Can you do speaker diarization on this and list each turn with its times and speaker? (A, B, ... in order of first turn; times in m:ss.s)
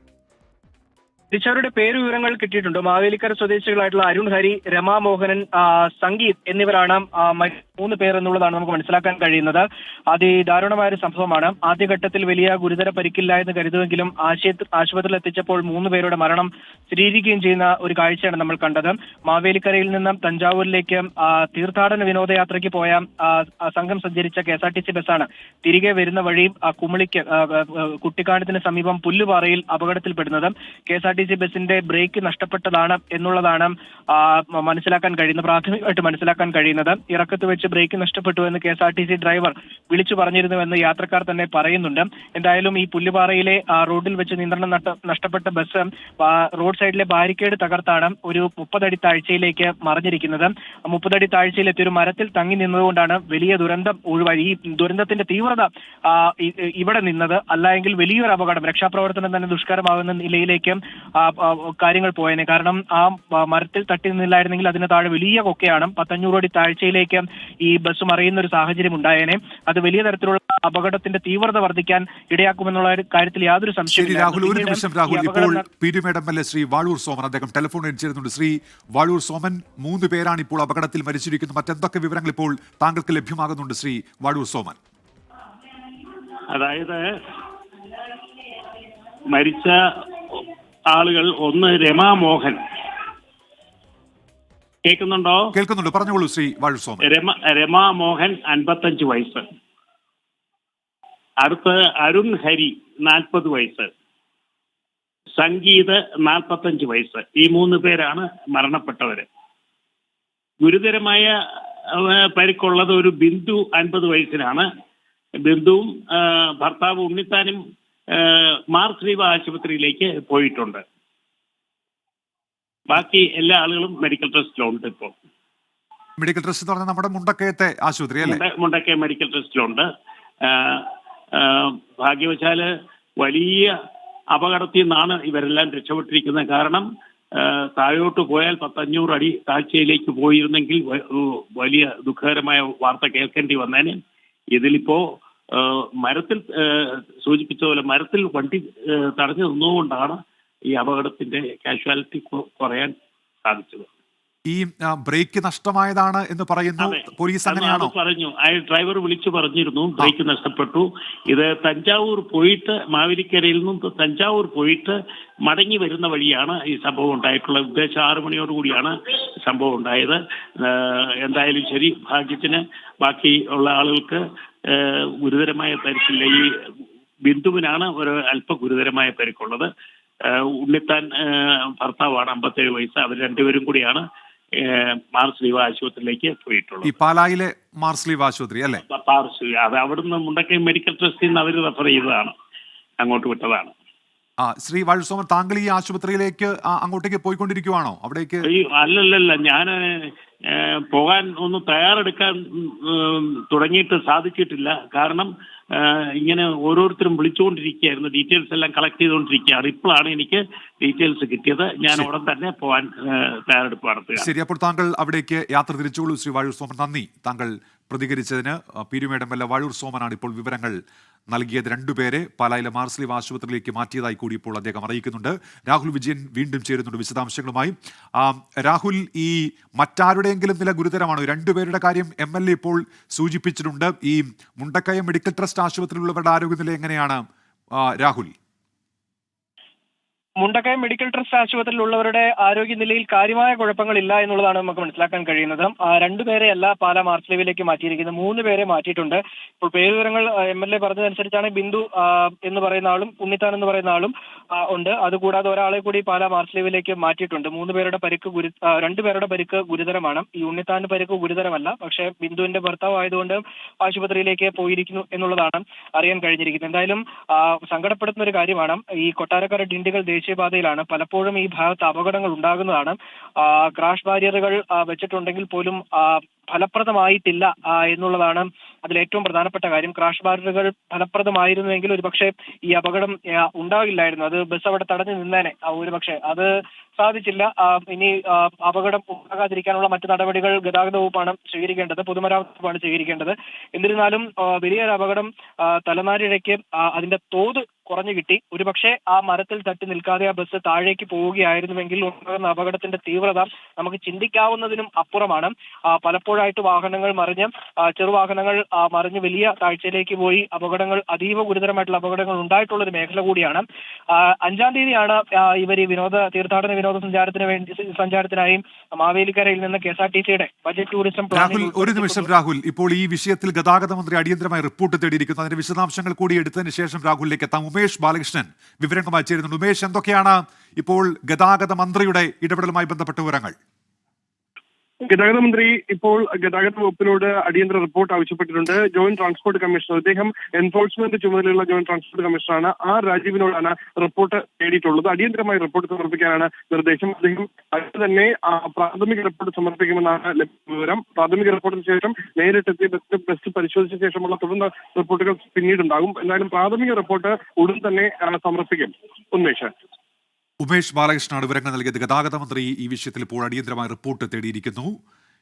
0:01.3-1:15.6 A
1:13.9-1:24.8 B
1:26.5-1:27.0 C
1:29.3-1:29.8 C
1:30.3-1:32.6 C
1:34.8-1:35.5 C
1:35.5-1:37.0 B
1:37.0-1:39.4 C
1:41.4-1:43.9 C
1:45.4-1:49.3 C
1:50.6-1:51.3 C
1:51.9-1:54.6 C
1:55.4-1:57.6 C
1:58.1-2:00.8 C
2:02.9-2:05.1 C
2:06.2-2:08.4 B
2:08.2-2:09.8 C
2:10.4-2:12.7 C
2:13.2-2:13.7 C
2:14.3-2:24.0 C
2:24.5-2:30.2 C
2:30.7-2:32.9 C
2:33.4-2:33.9 C
2:34.5-2:37.9 B
2:36.8-2:56.5 C
2:57.2-2:59.7 C
3:00.2-3:04.0 C
3:04.6-3:06.9 C
3:06.8-3:08.8 B
3:08.8-3:12.3 C
3:13.0-3:13.7 C
3:14.4-3:18.5 B
3:18.5-3:34.3 C
3:34.2-3:40.8 B
3:41.3-3:57.2 B
3:57.8-3:58.3 B
4:00.4-5:22.3 A
5:21.3-5:33.5 B
5:35.0-5:59.7 D
6:00.6-6:05.0 B